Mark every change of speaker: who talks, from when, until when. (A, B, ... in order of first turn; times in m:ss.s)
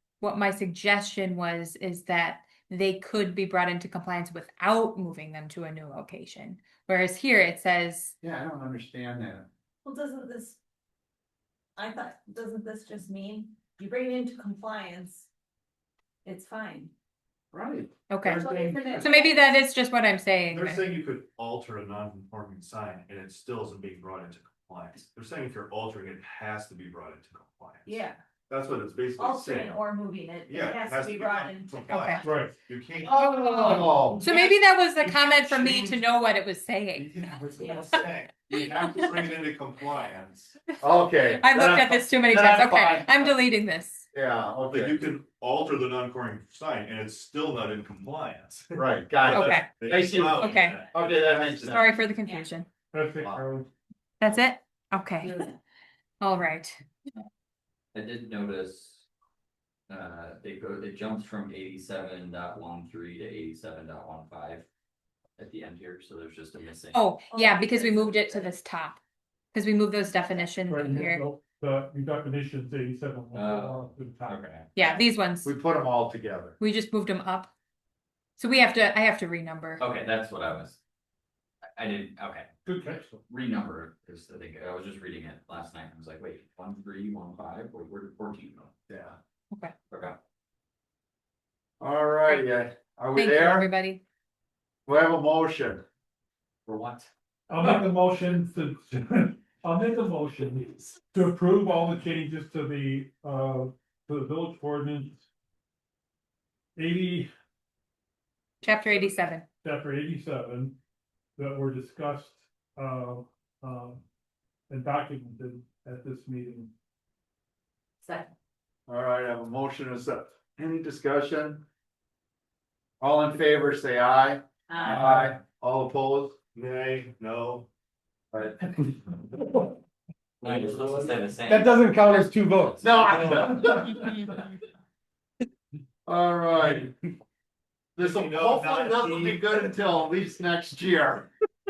0:00.2-0:08.2 A
0:08.2-0:09.5 B
0:09.8-0:10.6 C
0:11.8-0:15.2 C
0:16.2-0:16.9 C
0:17.5-0:17.9 B
0:18.1-0:20.9 A
0:18.4-0:19.4 C
0:20.5-0:29.9 D
0:27.9-0:28.2 C
0:29.2-0:31.8 C
0:30.5-0:36.0 D
0:31.9-0:32.3 A
0:32.2-0:32.6 E
0:33.0-0:34.3 B
0:33.2-0:39.0 A
0:37.0-0:40.6 D
0:40.8-0:43.4 B
0:41.3-0:44.0 A
0:44.1-0:45.0 B
0:44.7-0:51.8 D
0:48.8-0:49.6 B
0:49.3-0:49.7 A
0:49.8-0:52.0 F
0:50.4-0:50.8 A
0:50.9-0:51.8 B
0:51.7-0:52.7 A
0:52.9-0:53.7 E
0:54.2-0:55.5 A
0:56.2-0:56.8 A
0:57.9-0:59.1 F
0:59.9-1:04.7 F
1:05.4-1:07.0 F
1:06.9-1:09.0 A
1:07.3-1:08.5 C
1:09.5-1:11.2 A
1:10.7-1:14.4 E
1:13.3-1:14.7 F
1:14.8-1:15.5 A
1:15.4-1:16.6 B
1:16.6-1:17.5 A
1:18.4-1:19.8 A
1:19.8-1:20.8 F
1:21.8-1:22.5 F
1:22.6-1:23.2 E
1:23.3-1:28.7 F
1:28.9-1:29.2 B
1:29.9-1:30.2 F
1:31.8-1:33.7 B
1:33.2-1:34.0 A
1:34.9-1:35.8 B
1:36.7-1:37.1 F
1:37.5-1:45.3 E
1:46.8-1:47.3 E
1:48.6-1:49.4 A
1:49.6-1:50.8 E
1:51.4-1:54.0 E
1:54.7-1:56.7 E
1:58.9-2:01.6 B
2:03.0-2:06.4 B
2:04.9-2:05.3 G
2:06.5-2:07.7 D
2:08.3-2:08.8 B
2:10.4-2:11.8 F
2:10.4-2:13.5 G
2:12.6-2:13.5 F
2:12.8-2:14.3 B
2:16.1-2:16.9 B
2:18.0-2:21.3 B
2:18.0-2:19.4 D